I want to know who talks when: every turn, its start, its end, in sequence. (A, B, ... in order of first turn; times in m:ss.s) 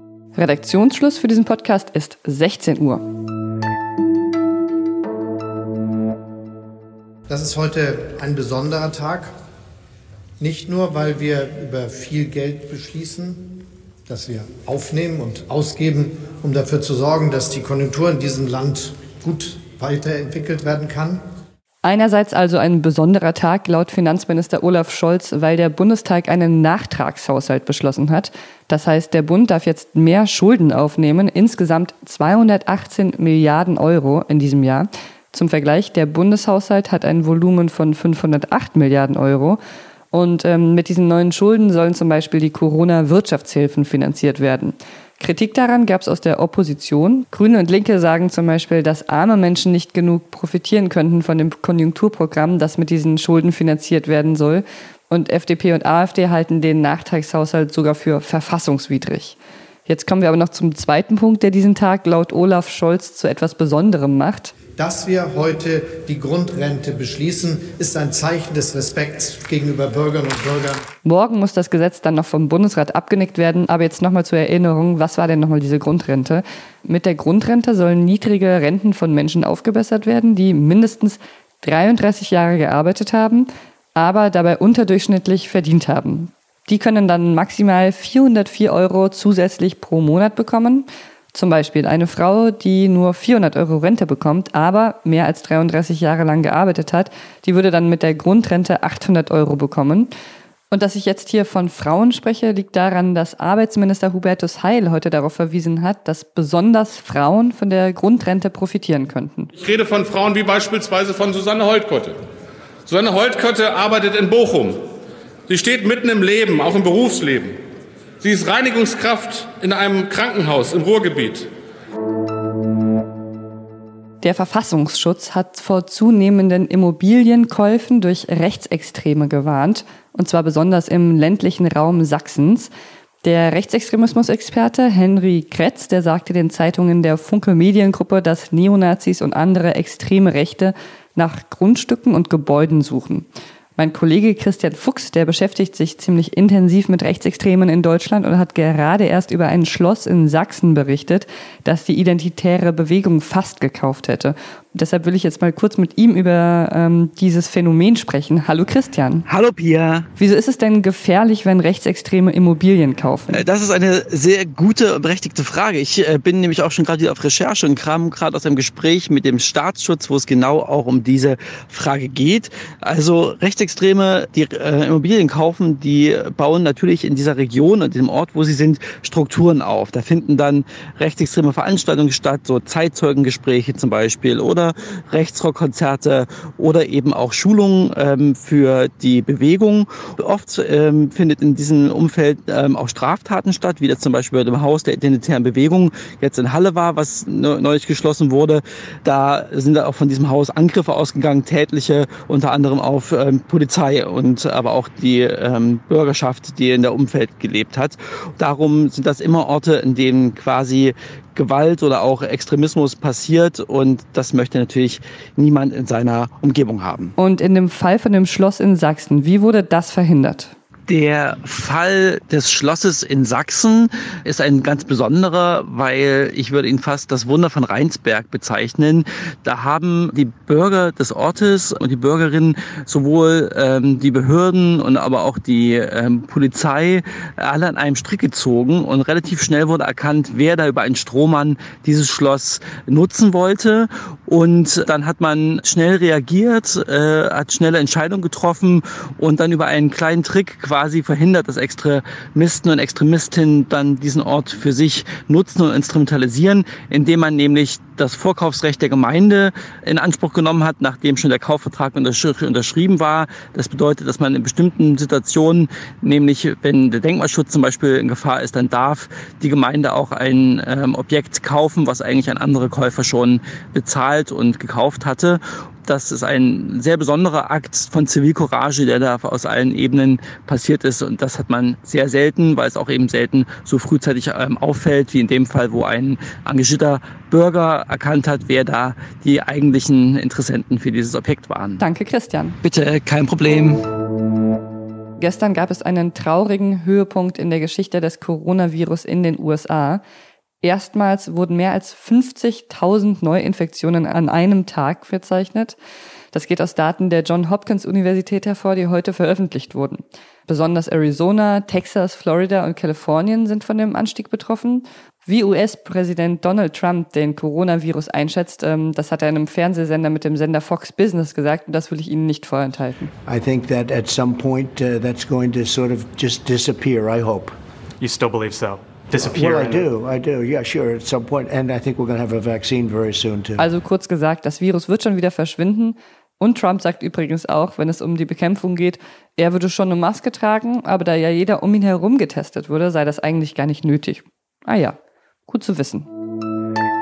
0:00.4-0:03.0 A
0:07.3-0:09.3 B
0:10.4-0:13.4 B
0:14.1-0:21.2 B
0:21.8-0:39.6 A
0:40.1-1:04.5 A
1:04.8-1:10.8 B
1:11.0-1:40.1 A
1:40.7-1:49.5 A
1:49.6-1:52.1 C
1:51.2-1:51.7 D
1:52.9-1:54.7 C
1:55.5-1:57.5 C
1:58.2-2:01.4 C
2:04.2-2:12.7 A
2:13.2-2:39.2 A
2:39.3-2:40.1 E
2:40.2-2:43.4 A
2:43.3-3:37.1 E
3:37.2-3:40.5 A
3:40.9-4:51.8 E
4:51.8-4:52.6 A
4:52.6-4:53.8 E
4:55.2-5:00.0 A
5:00.6-5:05.8 A
5:06.3-5:23.1 A
5:23.2-5:27.6 F
5:28.0-5:29.8 D
5:29.2-5:33.7 F
5:33.6-5:45.0 A
5:45.5-5:46.1 A